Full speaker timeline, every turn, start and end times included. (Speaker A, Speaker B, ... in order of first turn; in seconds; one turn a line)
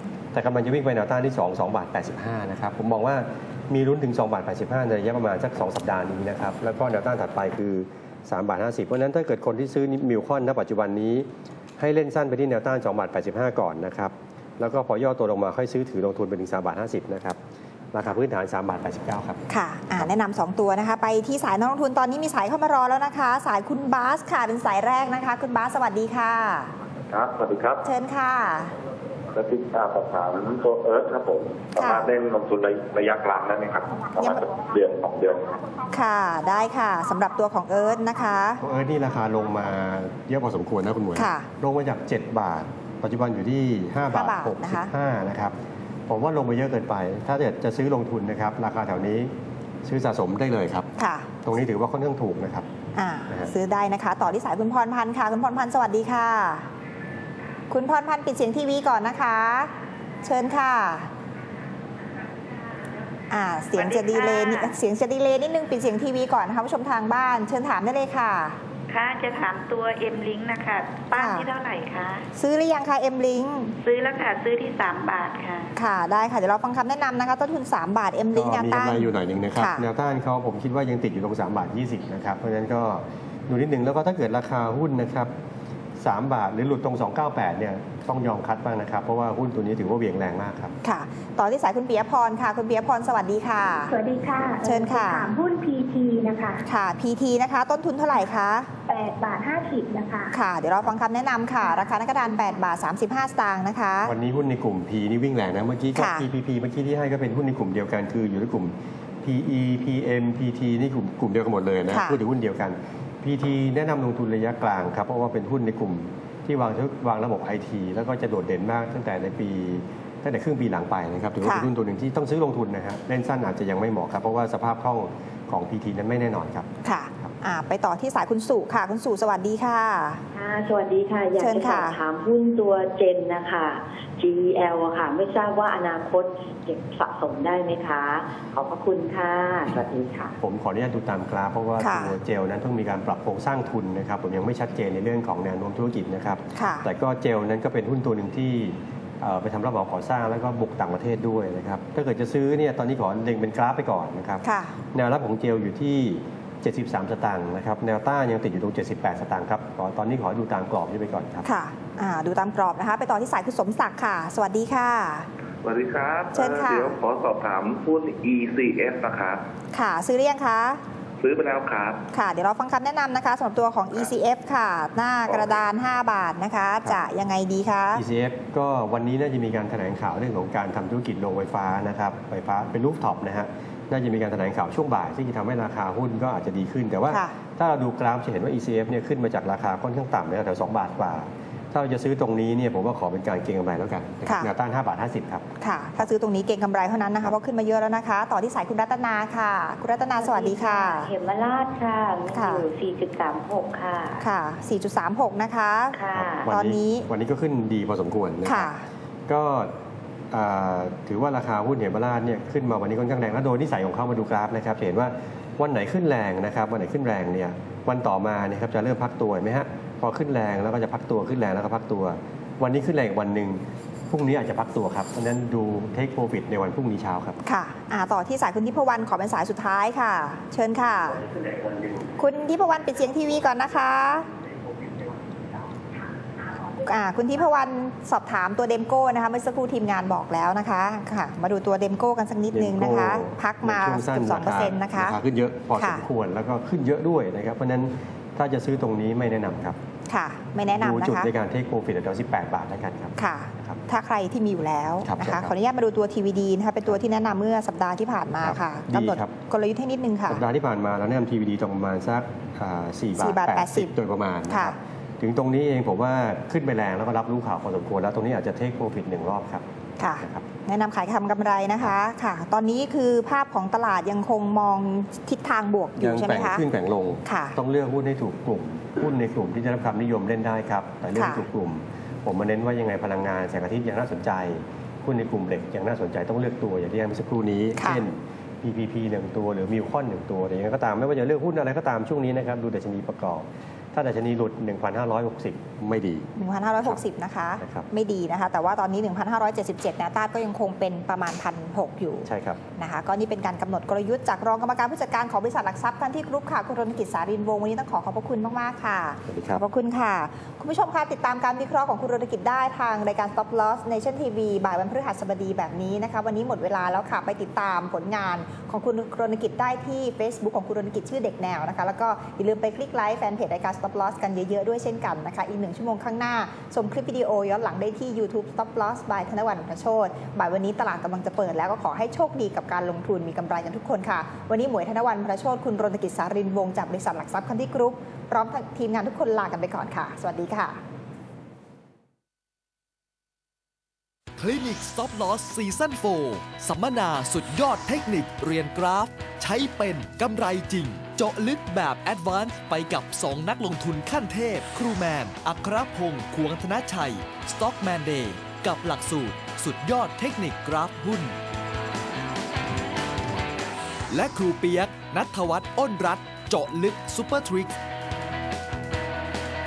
Speaker A: 0.3-11.3
Speaker A: 11.8-17.4
Speaker A: 17.9-19.4
Speaker B: 19.5-26.7
Speaker C: 27.1-27.8
Speaker B: 27.8-28.7
Speaker C: 29.3-35.6
Speaker B: 31.7-32.1
Speaker B: 34.2-34.5
Speaker B: 35.9-38.6
Speaker A: 38.6-45.5
Speaker B: 41.1-41.5
Speaker B: 44.1-44.9
Speaker A: 46.1-49.3
Speaker A: 49.8-50.9
Speaker B: 51.0-51.3
Speaker A: 51.4-52.7
Speaker B: 52.9-56.6
Speaker B: 57.7-59.7
Speaker B: 60.2-61.1
Speaker B: 63.3-68.5
Speaker D: 63.8-64.8
Speaker E: 64.1-64.6
Speaker D: 68.9-72.2
Speaker E: 70.8-72.1
Speaker B: 71.1-71.5
Speaker B: 72.3-73.7
Speaker D: 73.8-75.7
Speaker B: 75.7-79.9
Speaker A: 78.3-85.3
Speaker A: 86.0-90.7
Speaker B: 90.8-94.0
Speaker E: 93.9-96.6
Speaker B: 94.6-95.3
Speaker B: 96.6-98.7
Speaker E: 98.9-100.3
Speaker B: 100.3-104.1
Speaker A: 104.0-126.7
Speaker B: 106.0-106.2
Speaker B: 111.9-112.2
Speaker B: 121.4-121.7
Speaker B: 126.8-130.2
Speaker F: 130.3-140.3
Speaker B: 131.4-132.0
Speaker A: 140.4-161.5
Speaker B: 141.8-142.1
Speaker B: 146.5-146.9
Speaker B: 154.4-154.7
Speaker B: 161.4-165.2
Speaker C: 165.6-169.4
Speaker B: 166.3-166.9
Speaker B: 169.7-170.8
Speaker C: 171.2-172.0
Speaker B: 172.1-178.0
Speaker A: 177.9-195.4
Speaker B: 187.1-187.4
Speaker B: 194.2-194.5
Speaker B: 195.6-201.1
Speaker F: 200.2-204.2
Speaker B: 202.3-202.6
Speaker B: 204.2-207.1
Speaker F: 205.9-206.4
Speaker A: 206.1-208.7
Speaker B: 208.4-208.8
Speaker A: 209.3-209.7
Speaker A: 210.3-227.4
Speaker B: 227.4-231.2
Speaker B: 232.2-234.2
Speaker B: 236.8-245.2
Speaker A: 242.5-249.8
Speaker B: 245.7-246.0
Speaker B: 250.1-251.3
Speaker A: 250.7-253.8
Speaker B: 253.2-260.4
Speaker A: 255.0-255.5
Speaker A: 258.4-259.3
Speaker A: 260.3-269.6
Speaker B: 263.1-263.9
Speaker B: 264.5-264.7
Speaker B: 270.0-276.6
Speaker A: 270.2-270.5
Speaker A: 276.0-297.0
Speaker B: 277.2-277.6
Speaker B: 281.1-281.4
Speaker B: 287.8-288.0
Speaker B: 296.4-340.8
Speaker A: 297.6-297.9
Speaker A: 302.2-302.6
Speaker A: 309.3-309.6
Speaker G: 344.4-361.4
Speaker G: 364.1-367.8